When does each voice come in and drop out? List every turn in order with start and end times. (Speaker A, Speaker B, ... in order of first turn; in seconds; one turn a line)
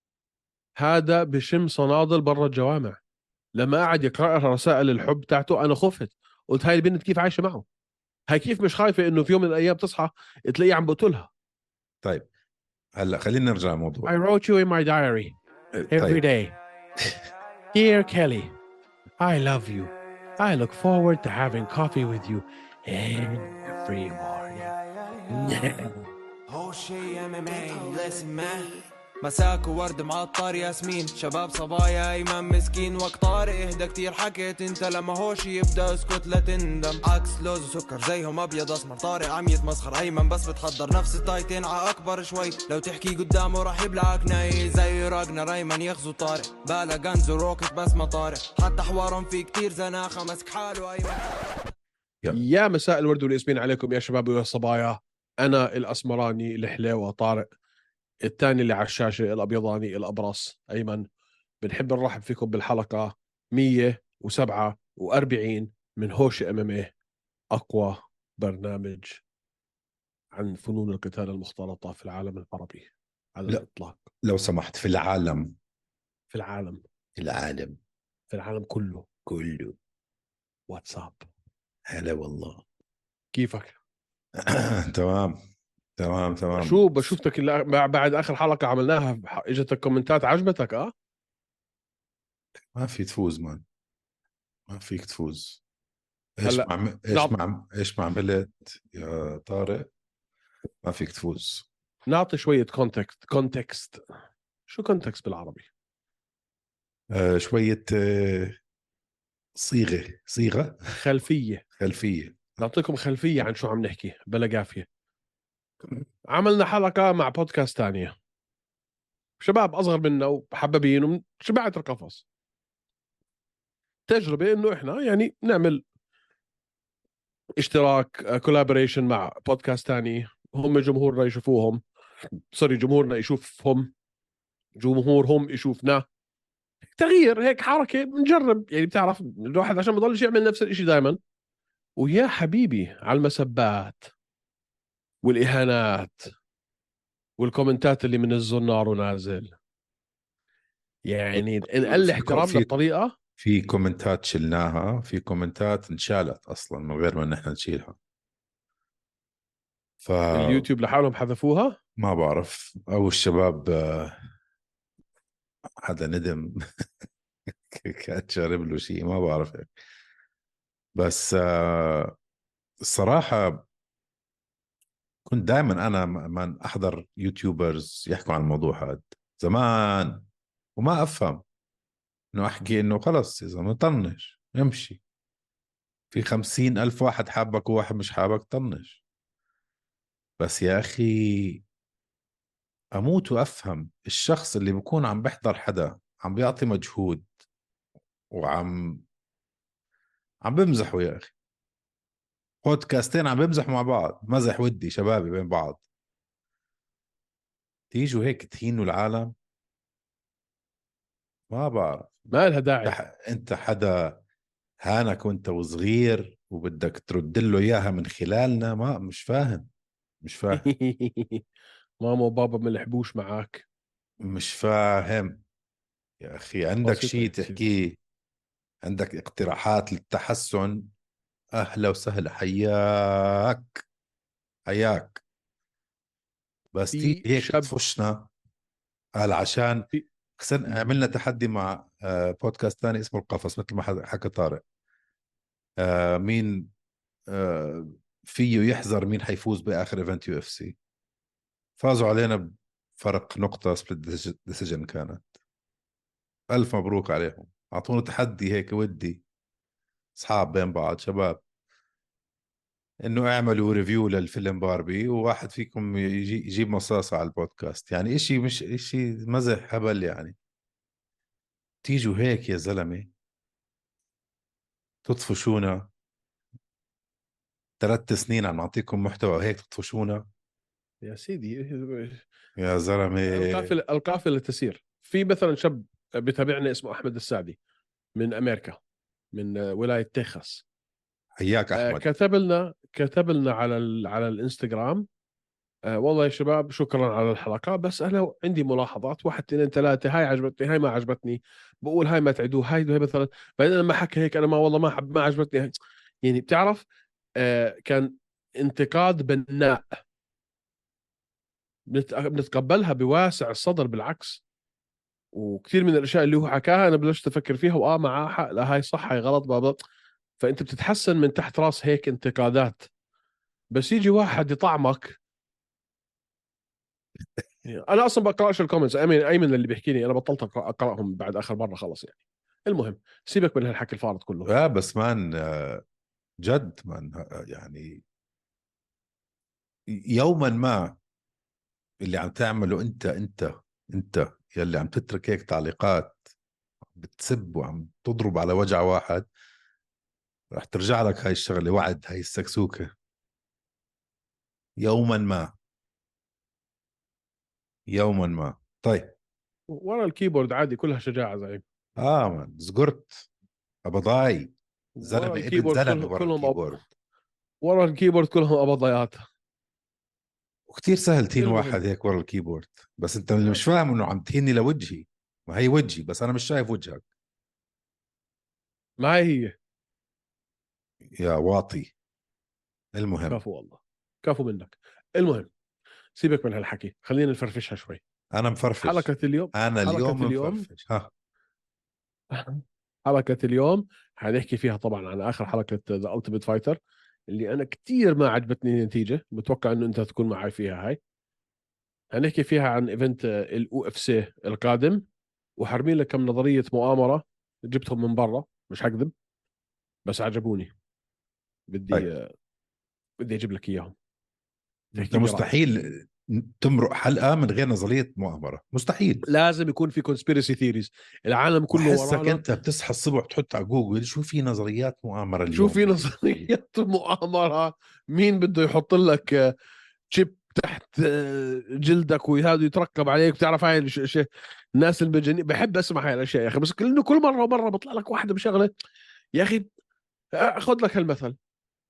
Speaker A: 0.8-3.0
Speaker A: 3.5-7.6
Speaker A: 8.3-11.3
Speaker B: 13.0-14.1
Speaker A: 14.0-15.3
Speaker A: 15.9-16.6
Speaker B: 15.9-16.2
Speaker A: 17.7-18.5
Speaker A: 19.2-24.7
Speaker A: 25.3-26.0
Speaker C: 26.5-51.3
Speaker A: 52.3-57.5
Speaker A: 58.2-61.0
Speaker A: 61.6-66.9
Speaker A: 67.5-69.2
Speaker A: 70.3-74.1
Speaker B: 74.2-75.5
Speaker A: 76.3-76.8
Speaker B: 77.2-77.8
Speaker A: 78.3-79.1
Speaker B: 79.2-79.8
Speaker A: 80.7-81.3
Speaker B: 81.9-82.6
Speaker A: 83.3-83.8
Speaker B: 84.4-85.4
Speaker B: 86.0-87.1
Speaker A: 86.5-90.9
Speaker B: 92.7-93.6
Speaker B: 94.7-95.6
Speaker B: 96.4-99.9
Speaker A: 96.4-97.3
Speaker B: 100.8-101.7
Speaker A: 102.1-104.0
Speaker A: 104.7-105.7
Speaker B: 107.1-108.6
Speaker B: 109.5-110.8
Speaker A: 110.9-111.6
Speaker B: 111.8-112.6
Speaker A: 112.6-114.9
Speaker A: 116.3-118.1
Speaker A: 119.4-122.2
Speaker A: 124.1-125.8
Speaker A: 127.6-131.8
Speaker A: 132.5-133.9
Speaker A: 134.8-136.1
Speaker A: 136.9-141.2
Speaker A: 142.0-144.1
Speaker A: 145.2-146.3
Speaker A: 147.4-149.6
Speaker A: 151.1-153.1
Speaker B: 151.3-152.7
Speaker B: 153.4-158.0
Speaker B: 160.0-160.7
Speaker A: 160.3-161.8
Speaker B: 162.0-164.1
Speaker B: 165.8-166.8
Speaker B: 167.7-169.7
Speaker B: 170.9-172.1
Speaker B: 172.8-173.7
Speaker B: 175.2-180.2
Speaker B: 180.8-181.4
Speaker B: 182.3-185.0
Speaker B: 186.1-189.0
Speaker B: 190.4-191.6
Speaker B: 192.9-197.2
Speaker B: 198.3-199.0
Speaker B: 200.4-201.3
Speaker B: 202.6-205.8
Speaker B: 207.9-209.3
Speaker B: 211.5-212.3
Speaker A: 212.3-213.0
Speaker B: 212.8-214.2
Speaker B: 214.8-219.7
Speaker B: 220.2-220.7
Speaker A: 220.5-221.4
Speaker A: 222.0-223.6
Speaker B: 224.2-225.4
Speaker B: 226.2-228.0
Speaker A: 226.8-227.6
Speaker B: 228.8-230.9
Speaker B: 231.5-233.8
Speaker B: 234.7-235.2
Speaker B: 236.7-238.3
Speaker A: 236.9-237.7
Speaker B: 239.2-244.6
Speaker B: 245.8-246.7
Speaker B: 247.3-250.8
Speaker B: 251.8-255.3
Speaker B: 256.5-259.2
Speaker B: 260.2-261.4
Speaker B: 263.0-270.4
Speaker B: 271.8-273.1
Speaker B: 275.0-275.9
Speaker B: 277.8-280.2
Speaker A: 281.0-282.2
Speaker B: 282.6-283.7
Speaker A: 283.3-287.6
Speaker A: 288.1-288.8
Speaker A: 289.3-290.6
Speaker B: 291.4-292.1
Speaker A: 291.7-295.1
Speaker A: 295.9-306.8
Speaker A: 307.4-309.8
Speaker A: 311.9-314.4
Speaker A: 315.3-319.8
Speaker A: 320.4-322.9
Speaker A: 323.7-325.2
Speaker A: 327.6-334.5
Speaker B: 334.4-335.8
Speaker B: 336.4-338.0
Speaker B: 339.9-341.0
Speaker B: 342.0-346.2
Speaker B: 346.9-349.3
Speaker B: 350.5-352.9
Speaker B: 354.8-355.5
Speaker B: 357.9-359.1
Speaker A: 359.7-361.6
Speaker B: 362.0-363.3
Speaker B: 363.8-366.8
Speaker A: 365.0-366.7
Speaker A: 367.6-369.2
Speaker B: 370.7-377.0
Speaker A: 371.4-371.8
Speaker A: 379.0-379.5
Speaker B: 381.2-381.9
Speaker B: 382.9-383.4
Speaker A: 383.3-385.5
Speaker A: 386.2-388.0
Speaker B: 388.3-391.1
Speaker A: 388.8-390.6
Speaker A: 392.3-401.0
Speaker A: 402.1-405.1
Speaker A: 405.6-409.1
Speaker A: 410.1-410.7
Speaker A: 411.7-412.3
Speaker A: 413.2-413.9
Speaker A: 414.9-415.5
Speaker B: 415.0-419.2
Speaker A: 419.2-422.4
Speaker B: 421.7-425.9
Speaker A: 425.5-429.5
Speaker A: 430.1-438.7
Speaker A: 439.3-439.7
Speaker A: 440.3-441.4